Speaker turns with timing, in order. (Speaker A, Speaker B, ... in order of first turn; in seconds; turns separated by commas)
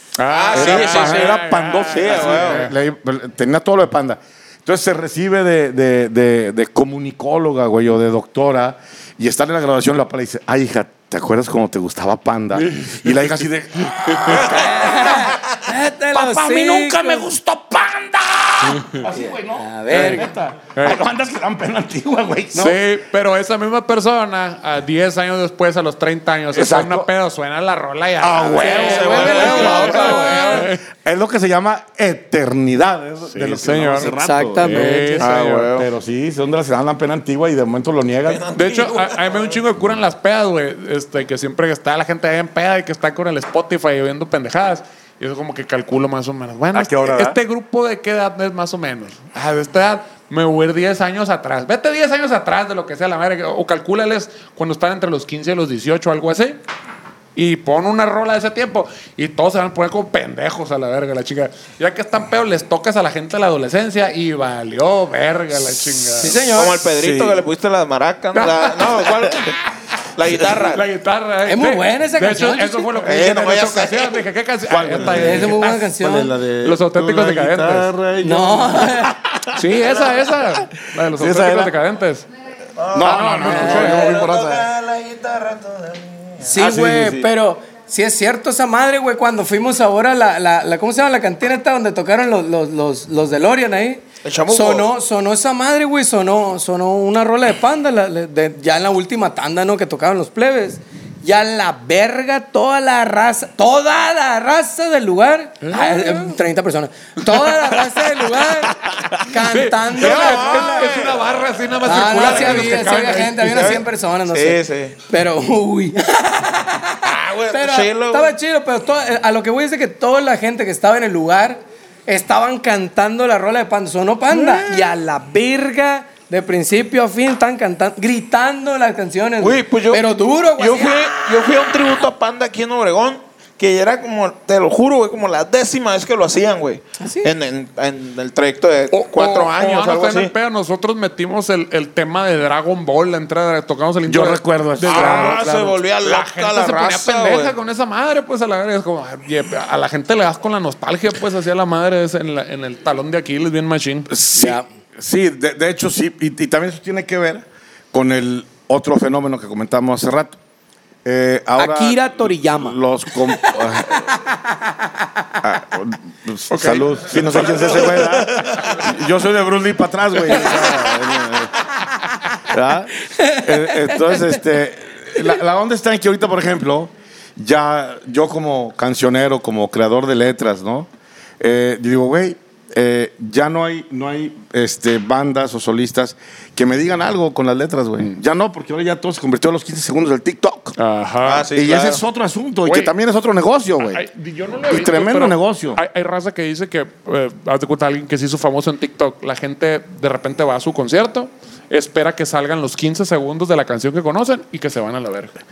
Speaker A: 0.2-2.7, Speaker B: 0.2-2.6, Speaker C: 0.5-15.5, Speaker A: 12.6-13.2, Speaker A: 14.0-14.4, Speaker D: 14.4-17.2, Speaker C: 16.1-22.8, Speaker D: 19.1-20.3, Speaker A: 19.9-20.2, Speaker A: 20.7-21.0, Speaker A: 22.5-30.8, Speaker C: 26.5-27.1, Speaker C: 28.2-38.4, Speaker B: 28.6-30.7, Speaker D: 28.6-30.7, Speaker A: 33.3-35.9, Speaker D: 34.1-35.3, Speaker B: 35.2-35.7, Speaker B: 38.2-39.6, Speaker A: 38.5-56.6, Speaker C: 46.7-47.4, Speaker A: 57.4-66.3, Speaker D: 66.2-66.8, Speaker B: 66.5-69.5, Speaker C: 67.0-67.4, Speaker A: 68.3-69.6, Speaker B: 70.2-70.8, Speaker A: 70.5-75.9, Speaker D: 71.5-72.9, Speaker B: 73.0-74.2, Speaker C: 74.7-79.7, Speaker D: 75.2-76.3, Speaker A: 76.6-77.9, Speaker D: 78.2-79.1, Speaker A: 79.5-82.2, Speaker B: 79.8-80.2, Speaker C: 81.1-81.7, Speaker B: 82.8-86.5, Speaker C: 82.9-84.7, Speaker A: 83.0-84.1, Speaker D: 83.4-84.3, Speaker D: 86.4-111.0, Speaker C: 86.5-87.3, Speaker B: 94.2-94.9, Speaker A: 105.6-106.3, Speaker A: 109.1-113.7, Speaker B: 109.9-111.5, Speaker D: 111.8-131.7, Speaker B: 112.1-112.8, Speaker B: 113.4-114.9, Speaker B: 117.0-118.3, Speaker B: 124.3-124.8, Speaker B: 129.4-130.0, Speaker B: 130.6-140.3, Speaker D: 137.0-137.3, Speaker A: 138.9-154.1, Speaker C: 144.0-145.5, Speaker B: 144.8-147.5, Speaker C: 154.1-160.3, Speaker D: 154.3-154.6, Speaker C: 161.0-164.1, Speaker D: 161.6-162.8, Speaker D: 163.4-164.9, Speaker C: 165.4-171.6, Speaker A: 166.5-167.8, Speaker B: 167.7-168.8, Speaker A: 170.4-170.7, Speaker C: 172.3-180.9, Speaker D: 173.0-174.4, Speaker C: 181.4-190.8, Speaker A: 190.8-191.5, Speaker B: 191.2-192.0, Speaker C: 191.5-194.0, Speaker A: 192.6-192.9, Speaker A: 193.8-205.4, Speaker C: 194.7-195.8